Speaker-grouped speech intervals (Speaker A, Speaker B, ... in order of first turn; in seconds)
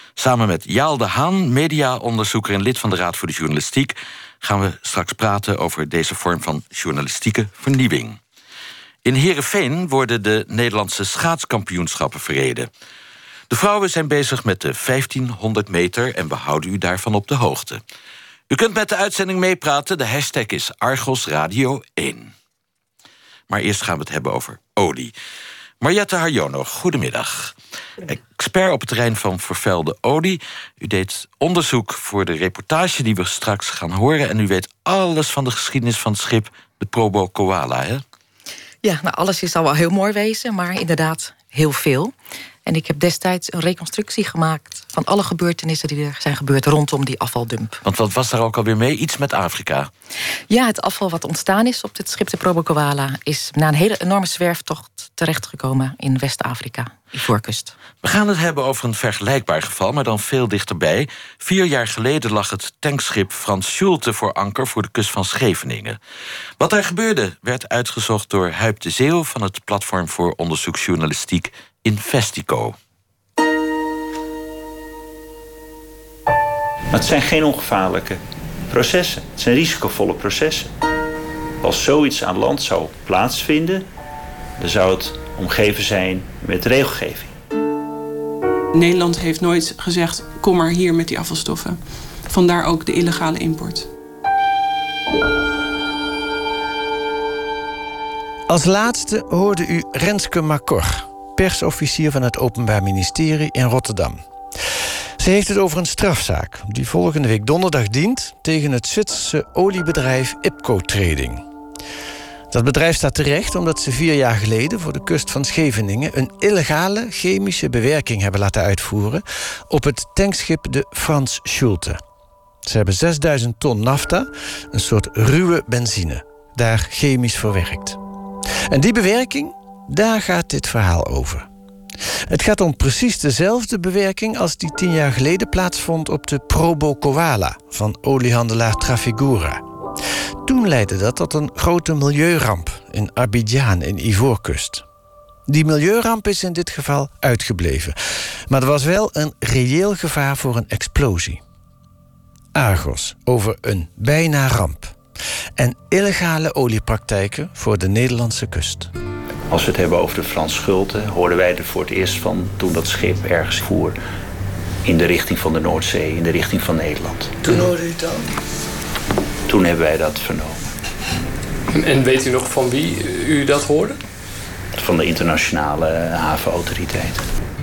Speaker A: 0.2-8.2, 9.0-12.7, 13.5-17.8, 18.5-22.3, 23.5-25.1, 25.8-27.5, 28.1-38.0, 47.8-49.9, 58.0-66.0, 66.6-72.8
Speaker B: 38.8-42.1, 42.6-47.8, 50.5-57.7
Speaker C: 76.9-80.7, 81.6-83.9, 84.6-87.3, 159.5-164.0, 164.8-167.4, 169.5-170.6, 174.8-177.2
Speaker D: 88.7-93.9
Speaker E: 98.5-104.2, 105.2-111.4, 112.5-122.0, 122.6-128.0, 128.7-131.5, 132.3-139.6, 140.4-144.8, 145.5-147.9, 148.5-151.4, 152.5-154.9, 155.6-158.9, 167.5-168.2
Speaker F: 171.7-174.0